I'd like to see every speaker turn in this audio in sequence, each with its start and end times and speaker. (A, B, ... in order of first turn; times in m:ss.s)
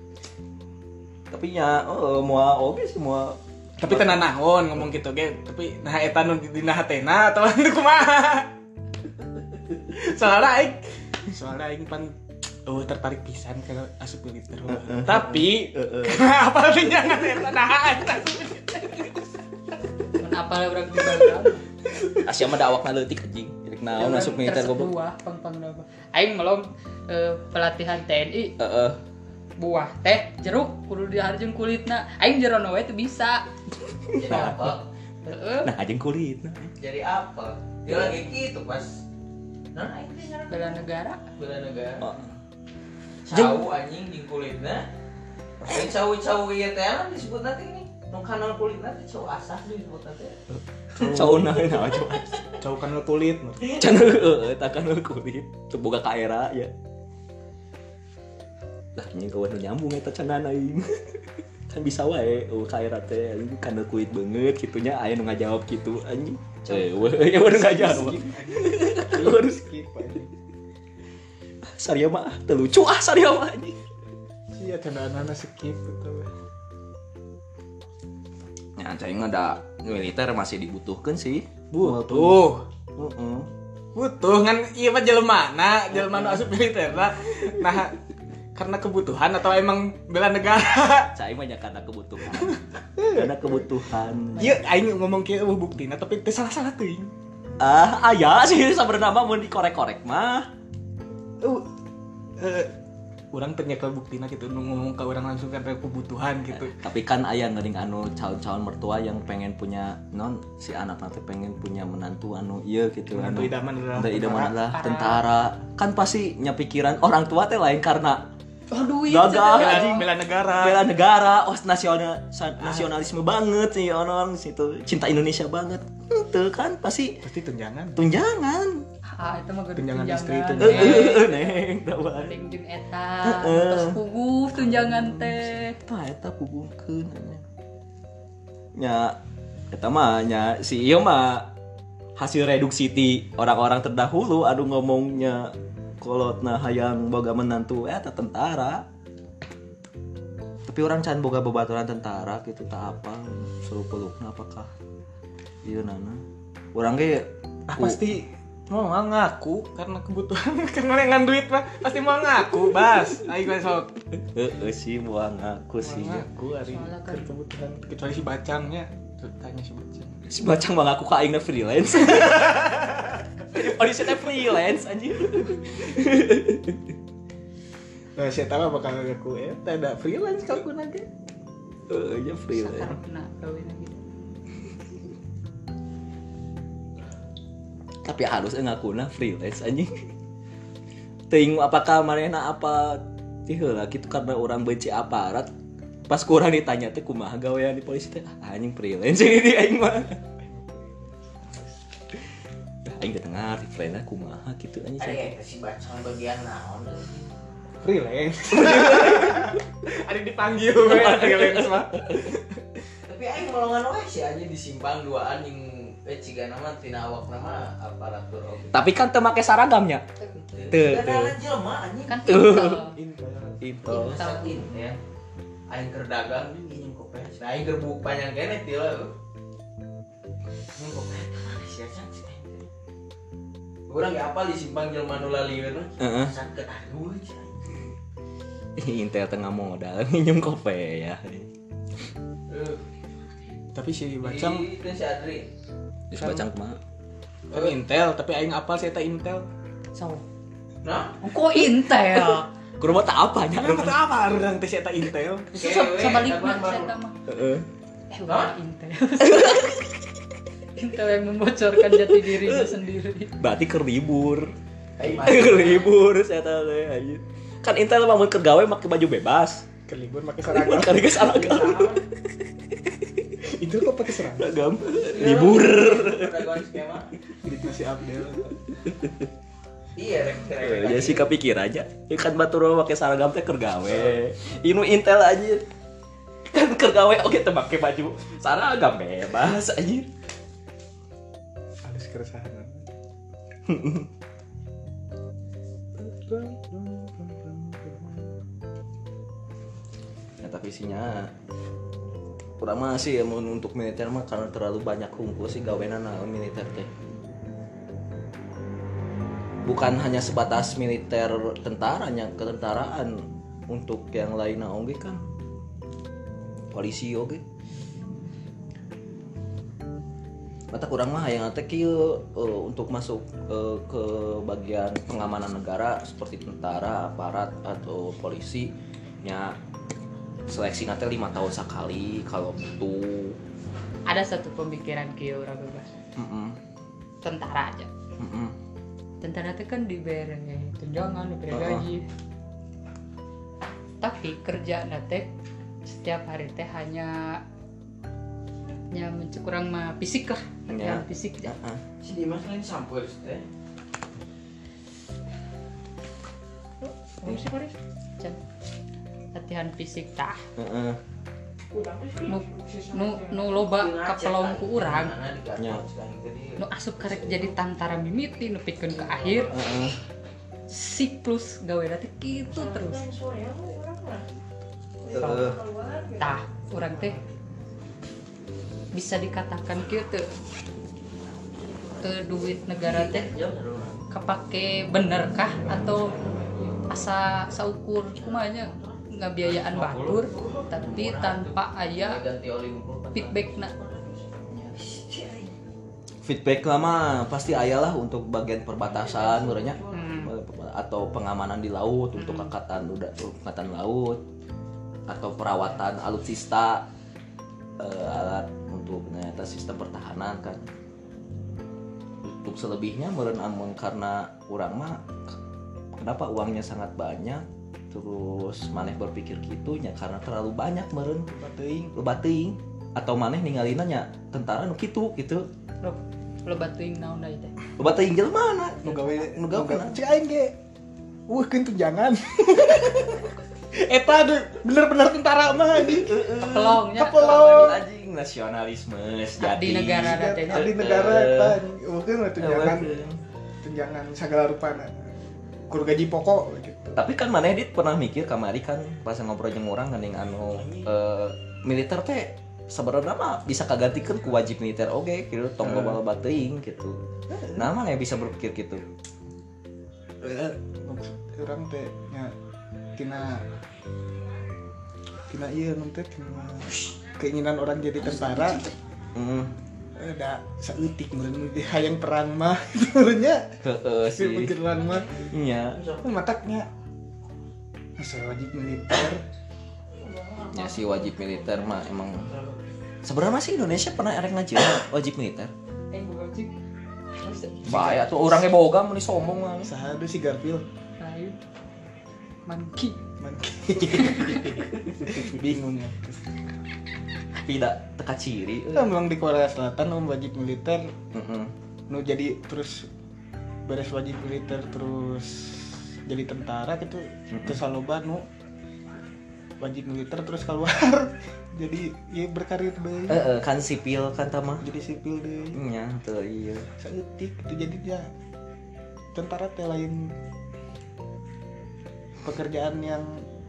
0:01.3-0:04.3 A
0:03.8-0:08.5 B
0:09.9-0:12.1 B
0:12.6-0:19.2 B
0:14.7-0:16.2 A
0:20.2-0:21.6 C
0:22.2-0:25.0 A
0:24.0-0:28.6 C
0:28.6-0:29.0 A
0:29.6-0:33.5 C
0:34.1-0:34.9 D
0:34.1-0:34.8 A
0:35.2-0:35.7 C
0:35.6-0:36.7 A
0:36.8-0:39.0 D
0:39.7-0:40.8 D
0:40.5-0:41.2 C
0:41.4-0:42.1 D
0:42.0-0:42.3 A
0:43.2-0:44.9 D
0:43.3-0:43.6 A
0:45.6-0:50.4 D
0:51.0-0:51.9 B
0:51.0-0:52.5 A
0:52.6-0:53.8 B
0:53.7-0:56.7 A
0:59.0-1:01.2 A
1:01.7-1:09.6 A
1:06.7-1:10.4 B
1:11.7-1:13.8 A
1:14.5-1:16.3 B
1:18.8-1:22.5 A
1:21.7-1:22.6 B
1:23.0-1:23.5 A
1:24.0-1:28.0 B
1:25.9-1:26.4 A
1:28.5-1:31.1 B
1:31.1-1:32.6 A
1:32.4-1:33.7 B
1:33.1-1:34.5 A
1:34.4-1:34.6 C
1:34.4-1:37.1 B
1:37.6-1:40.5 A
1:41.4-1:41.7 B
1:42.4-1:42.7 B
1:43.3-1:46.8 B
1:46.5-1:58.2 A
1:53.1-1:54.5 B
1:54.7-1:55.2 C
1:59.1-2:07.2 A
1:59.1-2:00.0 C
1:59.1-2:00.9 B
2:02.6-2:02.9 B
2:07.2-2:08.0 B
2:08.0-2:08.9 A
2:09.0-2:15.8 C
2:09.8-2:11.2 B
2:10.6-2:12.4 A
2:13.2-2:14.0 A
2:14.5-2:17.4 A
2:18.8-2:19.2 A
2:19.7-2:21.5 A
2:22.2-2:28.8 A
2:30.7-2:34.7 A
2:35.6-2:38.0 A
2:37.7-2:43.9 B
2:44.2-2:46.3 A
2:45.8-2:50.2 B
2:46.6-2:47.3 C
2:50.3-2:52.9 A
2:52.1-2:53.6 B
2:53.5-2:56.9 A
2:58.2-3:01.1 B
3:01.9-3:03.0 A
3:02.5-3:04.0 C
3:08.0-3:09.9 A
3:11.3-3:15.5 A
3:16.1-3:20.2 A
3:20.4-3:21.8 B
3:22.9-3:25.3 A
3:25.0-3:27.3 D
3:27.8-3:32.6 B
3:28.5-3:29.6 A
3:30.8-3:32.2 A
3:33.1-3:38.8 D
3:38.7-3:40.0 A
3:40.4-3:42.3 D
3:40.7-3:41.4 A
3:42.1-3:43.0 C
3:42.2-3:42.8 A
3:42.9-3:43.8 B
3:43.6-3:44.3 A
3:43.9-3:44.6 C
3:43.9-3:45.0 D
3:45.7-3:49.1 D
3:50.8-3:52.7 D
3:53.9-3:57.9 D
3:56.0-3:56.3 A
3:58.8-4:01.5 A
4:02.5-4:02.8 D
4:03.8-4:04.7 B
4:04.2-4:05.5 D
4:06.1-4:06.8 A
4:06.2-4:06.4 B
4:07.5-4:09.5 B
4:07.5-4:07.8 D
4:09.9-4:10.2 C
4:10.8-4:11.2 D
4:11.2-4:12.5 C
4:12.2-4:14.0 A
4:13.6-4:15.5 B
4:15.5-4:16.9 D
4:15.5-4:17.2 C
4:17.2-4:17.7 A
4:18.1-4:19.8 C
4:18.3-4:18.5 D
4:19.2-4:20.0 A
4:20.8-4:23.4 C
4:21.8-4:22.7 A
4:23.4-4:29.7 A
4:25.0-4:25.9 D
4:29.9-4:31.2 B
4:30.4-4:33.5 A
4:31.1-4:32.0 D
4:33.4-4:34.7 B
4:34.3-4:36.6 A
4:35.0-4:37.1 D
4:37.4-4:38.7 B
4:38.8-4:39.3 A
4:40.0-4:41.3 D
4:40.6-4:45.6 A
4:46.5-4:50.1 A
4:51.8-4:52.9 B
4:53.7-4:54.1 A
4:56.0-4:58.3 B
5:00.4-5:01.3 A
5:02.6-5:06.9 A
5:09.6-5:15.2 A
5:16.7-5:17.4 A
5:20.7-5:29.6 A
5:30.5-5:33.4 A
5:34.1-5:35.9 C
5:36.2-5:36.6 A
5:37.2-5:37.9 C
5:38.2-5:38.5 A
5:39.2-5:42.0 C
5:41.5-5:41.9 A
5:44.0-5:45.3 C
5:45.8-5:47.4 C
5:48.9-5:51.5 C
5:50.7-5:51.8 A
5:52.0-5:53.4 D
5:56.8-5:58.4 C
5:59.3-6:00.4 C
6:00.6-6:01.0 A
6:01.7-6:07.6 D
6:02.2-6:05.2 C
6:05.6-6:05.8 A
6:06.6-6:09.5 C
6:08.9-6:09.9 D
6:09.5-6:10.0 A
6:10.7-6:13.1 C
6:12.6-6:14.3 D
6:15.0-6:15.6 A
6:15.0-6:16.2 D
6:16.1-6:17.2 C
6:18.9-6:20.3 C
6:22.0-6:23.3 C
6:22.8-6:24.0 D
6:24.1-6:26.2 C
6:25.7-6:26.9 D
6:26.9-6:32.2 C
6:28.2-6:35.5 D
6:33.1-6:33.7 C
6:36.2-6:44.2 A
6:38.8-6:40.0 D
6:39.9-6:40.3 C
6:42.2-6:42.5 C
6:45.1-6:46.8 A
6:47.8-6:50.7 A
6:52.2-6:55.4 A
6:55.9-7:01.3 A
7:01.3-7:02.0 B
7:02.0-7:05.4 A
7:05.8-7:07.5 C
7:07.8-7:10.0 A
7:08.8-7:10.5 B
7:08.9-7:09.2 C
7:11.3-7:17.8 B
7:15.7-7:21.6 A
7:16.4-7:17.8 C
7:19.4-7:20.8 C
7:20.0-7:22.9 B
7:22.4-7:23.2 A
7:23.6-7:25.0 B
7:25.7-7:27.0 B
7:27.0-7:37.0 A
7:30.5-7:30.9 B
7:35.6-7:36.0 B
7:37.3-7:37.7 B
7:37.6-7:38.8 A
7:40.2-7:42.3 B
7:43.0-7:43.5 B
7:45.3-7:48.6 B
7:48.3-7:49.5 A
7:50.0-7:53.5 B
7:53.6-7:54.6 A
7:54.2-7:55.0 B
7:55.3-7:55.8 A
7:55.8-7:56.0 D
7:56.0-7:56.7 B
7:58.0-7:59.2 B
8:00.0-8:01.0 D
8:00.5-8:02.3 A
8:02.1-8:02.6 D
8:03.0-8:05.5 A
8:05.9-8:06.5 C
8:07.2-8:08.0 C
8:07.7-8:09.7 A
8:09.6-8:10.6 B
8:11.0-8:11.4 C
8:12.5-8:13.0 C
8:13.2-8:16.4 B
8:14.1-8:14.5 C
8:17.4-8:19.0 A
8:18.7-8:20.9 B
8:21.1-8:21.5 A
8:21.9-8:22.9 B
8:23.7-8:28.2 B
8:27.3-8:27.6 A
8:29.6-8:33.2 B
8:33.1-8:34.7 A
8:34.6-8:35.6 B
8:35.5-8:36.7 A
8:36.8-8:38.1 B
8:39.2-8:40.1 B
8:42.2-8:43.2 B